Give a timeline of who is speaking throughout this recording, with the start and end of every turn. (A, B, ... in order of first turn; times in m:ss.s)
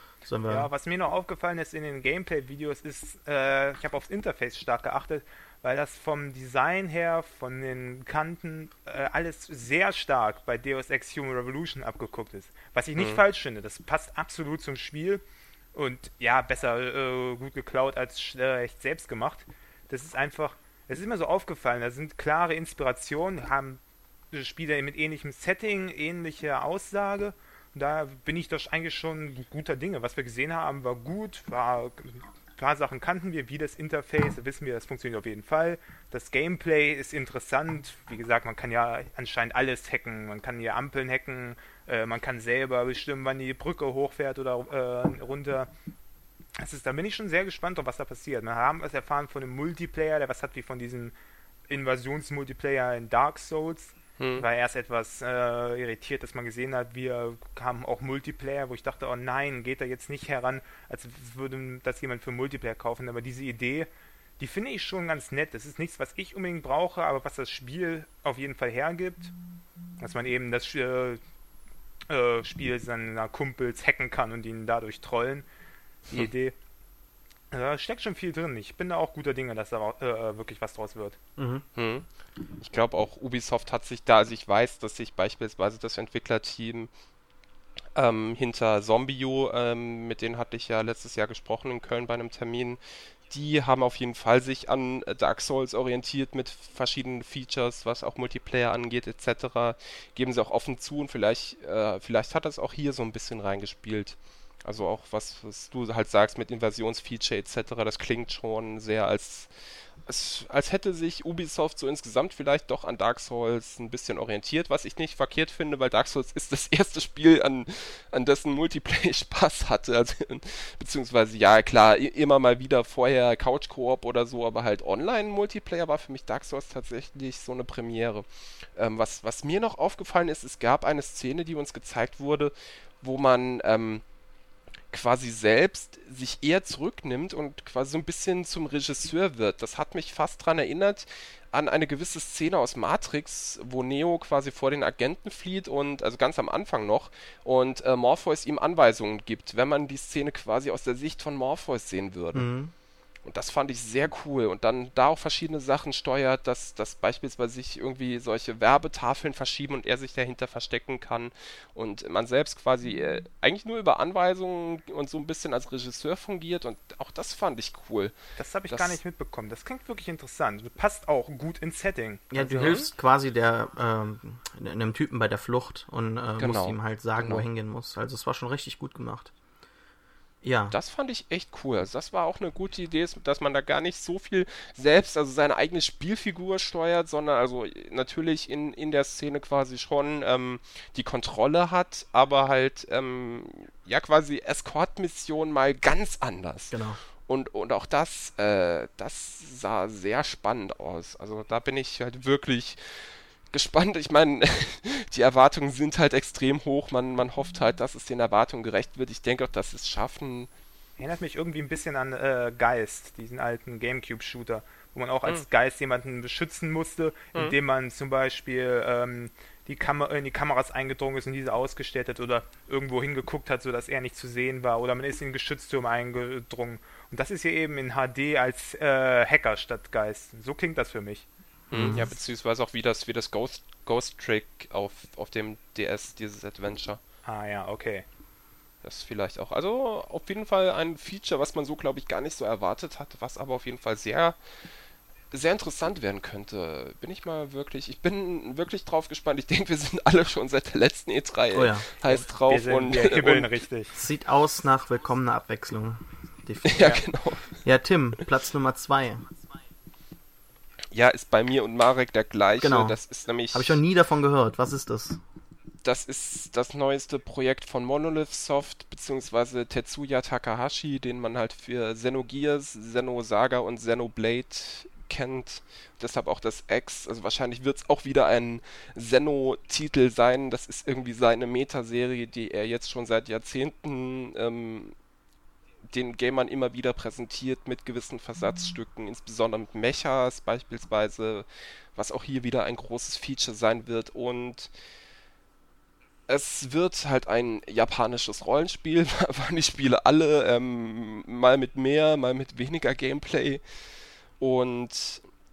0:00.2-0:00.7 A
0:00.5-0:15.2 B
0:15.8-0:23.8 B
0:24.3-0:45.7 B
0:46.6-0:51.1 B
0:51.7-1:03.9 B
0:54.2-0:54.4 C
1:04.4-1:09.3 B
1:10.0-1:11.2 B
1:12.1-1:15.5 B
1:16.1-1:16.6 B
1:17.5-1:21.2 B
1:21.4-1:21.6 A
1:21.8-1:22.1 C
1:22.6-1:26.9 C
1:28.0-1:49.5 C
1:50.1-2:08.2 C
2:08.8-2:14.0 C
2:14.9-2:32.5 C
2:32.3-2:32.7 A
2:33.2-2:48.2 C
2:48.4-2:52.8 B
2:48.7-2:49.0 C
2:52.3-2:59.3 A
2:52.6-2:52.9 C
2:56.4-2:57.4 C
3:00.4-3:00.8 A
3:00.7-3:30.5 C
3:16.7-3:17.0 A
3:31.0-3:51.3 B
3:51.7-3:57.0 C
3:51.7-3:52.1 A
3:57.2-3:58.0 B
3:58.8-4:04.4 C
4:05.3-4:13.6 C
4:11.5-4:11.9 A
4:12.1-4:14.0 B
4:13.9-4:17.0 A
4:16.6-4:17.6 C
4:17.6-4:19.2 A
4:20.9-4:23.8 C
4:22.6-4:23.0 A
4:23.5-4:25.2 A
4:25.8-4:45.0 C
4:45.9-4:54.7 C
4:56.3-5:03.6 C
5:04.4-5:05.2 C